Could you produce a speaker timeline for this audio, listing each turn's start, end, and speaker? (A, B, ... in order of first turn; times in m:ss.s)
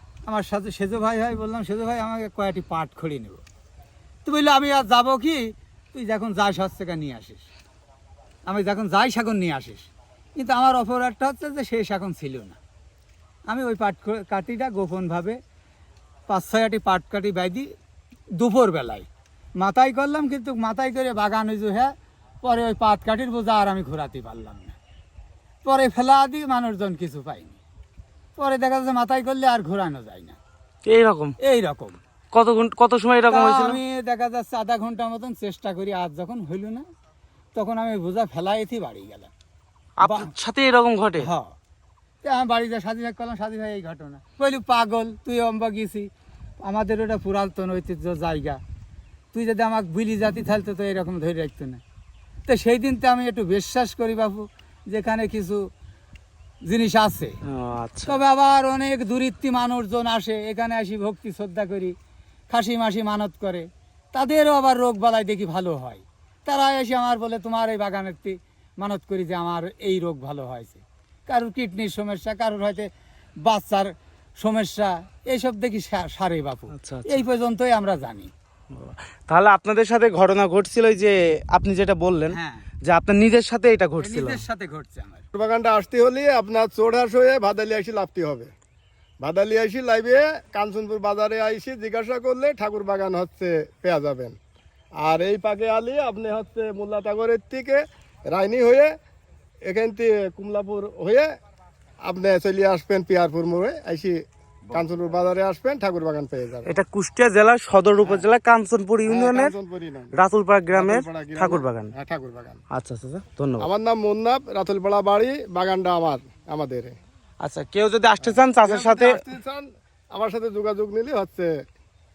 0:00.3-0:03.4 A
0:04.2-0:07.5 A
0:08.4-0:12.6 A
0:13.5-0:15.4 A
0:16.3-0:17.7 A
0:18.4-0:24.8 A
0:25.6-0:27.6 A
0:28.4-0:30.4 A
0:30.9-0:31.4 B
0:31.4-0:32.0 A
0:32.3-0:33.8 B
0:33.3-0:36.8 A
0:37.6-0:39.3 A
0:40.0-0:41.3 B
0:40.0-0:40.3 A
0:41.2-0:41.5 A
0:42.2-0:46.1 A
0:46.6-0:48.6 A
0:49.3-0:51.8 A
0:52.5-0:55.7 A
0:56.6-0:57.4 A
0:57.5-0:58.2 B
0:58.1-1:02.0 A
1:02.5-1:12.9 A
1:13.4-1:18.3 A
1:16.7-1:17.2 B
1:18.7-1:24.4 B
1:22.3-1:22.7 A
1:24.0-1:25.2 A
1:25.3-1:28.5 C
1:29.2-1:34.4 C
1:35.0-1:38.9 C
1:39.6-1:41.3 C
1:42.0-1:46.8 C
1:46.7-1:49.5 B
1:49.1-1:50.1 C
1:50.2-1:51.9 B
1:50.7-1:52.6 C
1:52.7-1:53.7 B
1:53.6-1:57.0 C
1:57.4-1:59.2 B
1:58.2-2:01.6 C